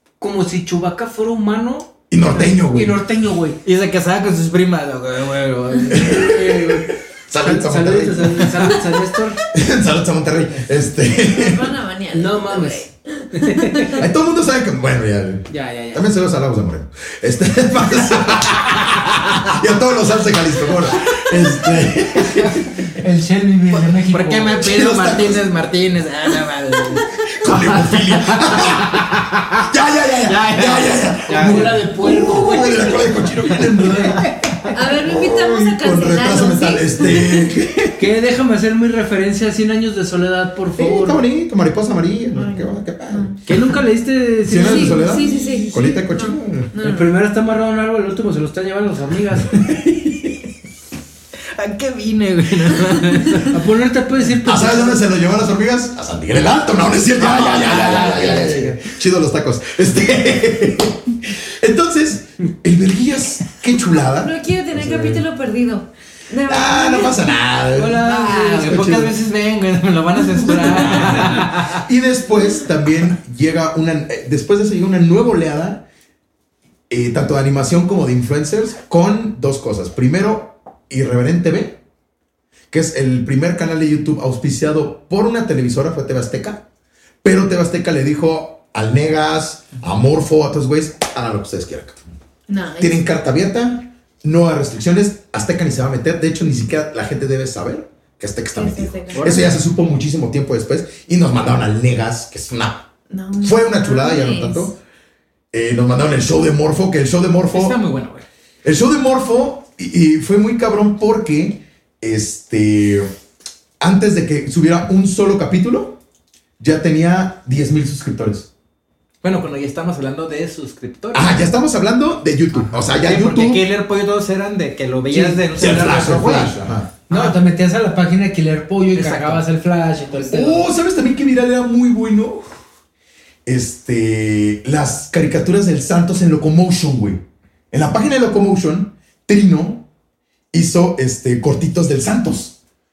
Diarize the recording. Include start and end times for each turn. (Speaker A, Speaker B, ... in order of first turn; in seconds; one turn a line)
Speaker A: 0.2-3.6
Speaker B: 2.1-3.0
Speaker C: 3.6-6.4
Speaker B: 5.9-8.5
Speaker A: 6.0-9.4
Speaker B: 9.5-11.7
Speaker D: 11.2-14.0
Speaker A: 12.1-14.0
Speaker B: 13.9-22.8
Speaker A: 15.5-16.1
Speaker C: 22.2-22.6
Speaker A: 22.9-24.6
Speaker C: 23.9-29.6
Speaker B: 24.6-25.5
Speaker B: 27.3-29.1
Speaker B: 29.6-34.3
Speaker C: 30.2-31.8
Speaker A: 31.3-33.1
Speaker C: 33.4-34.7
Speaker D: 34.7-37.5
Speaker B: 35.0-38.1
Speaker A: 38.0-41.2
Speaker B: 40.8-43.5
Speaker D: 42.3-43.4
Speaker A: 43.5-45.4
Speaker B: 44.4-46.7
Speaker D: 44.6-47.1
Speaker A: 46.8-49.8
Speaker C: 51.5-53.6
Speaker A: 53.5-55.0
Speaker B: 54.4-65.2
Speaker C: 57.2-58.6
Speaker A: 57.5-58.8
Speaker D: 64.2-67.3
Speaker B: 66.5-69.1
Speaker A: 67.7-68.9
Speaker C: 68.0-71.8
Speaker B: 70.4-75.8
Speaker A: 70.8-71.3
Speaker B: 76.9-81.8
Speaker B: 82.7-86.6
Speaker B: 87.2-92.1
Speaker D: 92.5-93.1
Speaker B: 92.8-102.8
Speaker D: 98.5-99.5
Speaker C: 99.1-99.6
Speaker D: 103.1-104.7
Speaker B: 103.4-104.8
Speaker B: 105.5-107.8
Speaker C: 107.5-108.2
Speaker B: 108.6-113.1
Speaker B: 113.8-116.0
Speaker B: 116.6-118.5
Speaker C: 119.2-121.4
Speaker B: 121.1-123.6
Speaker C: 122.5-127.4
Speaker A: 125.1-125.4
Speaker B: 125.5-126.9
Speaker A: 127.1-130.7
Speaker C: 128.9-129.4
Speaker B: 130.1-132.4
Speaker B: 133.4-139.8
Speaker B: 140.5-142.6